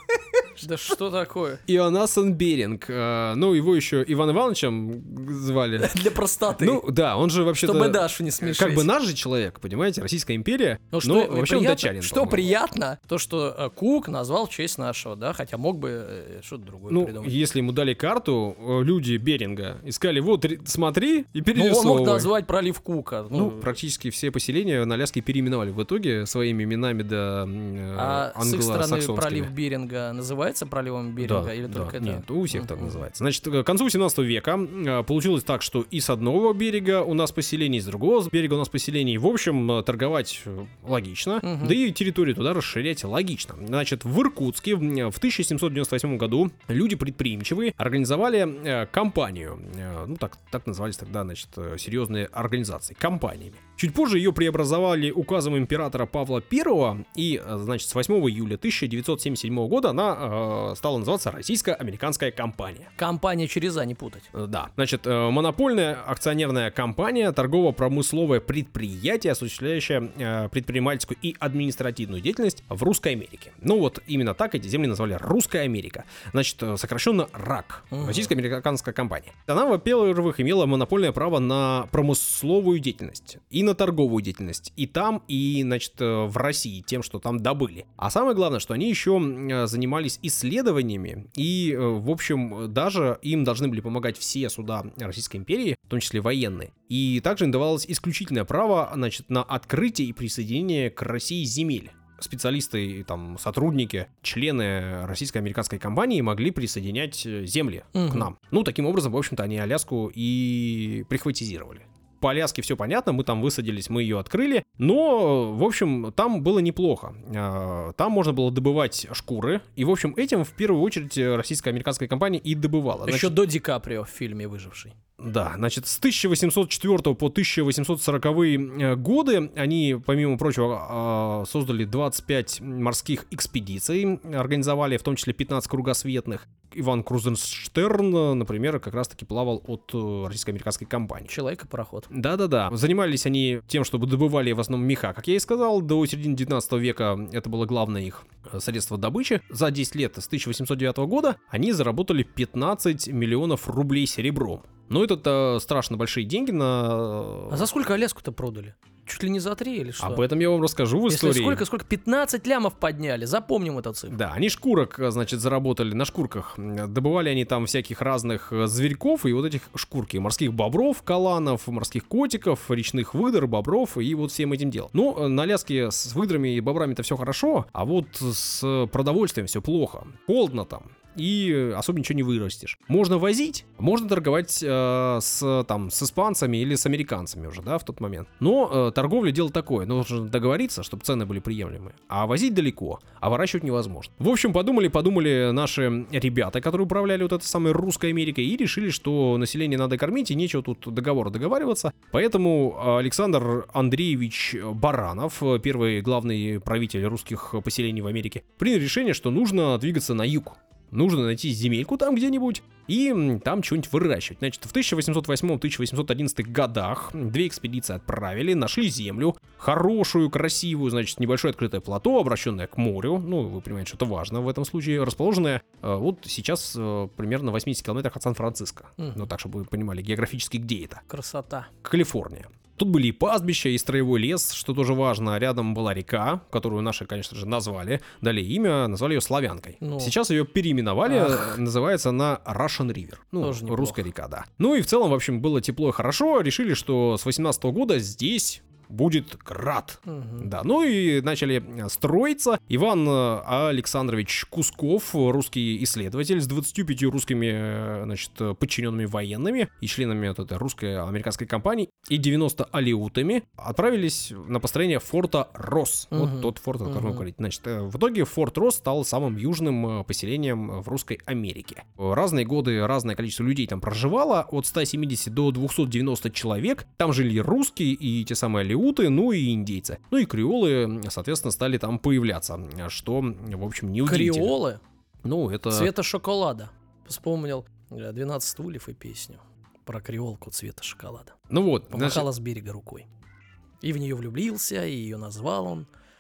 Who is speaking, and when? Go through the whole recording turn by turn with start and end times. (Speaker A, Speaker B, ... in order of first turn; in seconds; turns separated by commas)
Speaker A: 0.6-1.6, Speaker B: 1.7-12.5, Speaker A: 5.8-6.8, Speaker A: 7.6-8.9, Speaker A: 10.9-17.4, Speaker B: 16.9-22.3, Speaker A: 21.6-23.7, Speaker B: 23.4-29.5, Speaker A: 27.9-33.0, Speaker B: 31.2-62.9, Speaker A: 41.4-41.8, Speaker A: 63.0-64.3, Speaker B: 64.3-123.4, Speaker A: 77.9-78.3, Speaker A: 108.0-108.3, Speaker A: 123.1-124.9, Speaker B: 125.2-141.3, Speaker A: 141.3-142.1, Speaker B: 142.1-157.7, Speaker A: 157.5-160.2, Speaker B: 160.0-161.6, Speaker A: 161.1-164.2, Speaker B: 164.1-231.0, Speaker A: 229.0-229.3, Speaker A: 231.1-231.7, Speaker B: 231.8-284.5, Speaker A: 239.8-240.1, Speaker A: 241.1-241.6, Speaker A: 243.4-244.1, Speaker A: 250.1-250.5, Speaker A: 266.1-267.2, Speaker A: 284.1-284.8, Speaker B: 285.2-285.9, Speaker A: 285.7-291.4, Speaker B: 291.5-292.3, Speaker A: 291.9-293.1, Speaker A: 293.8-295.9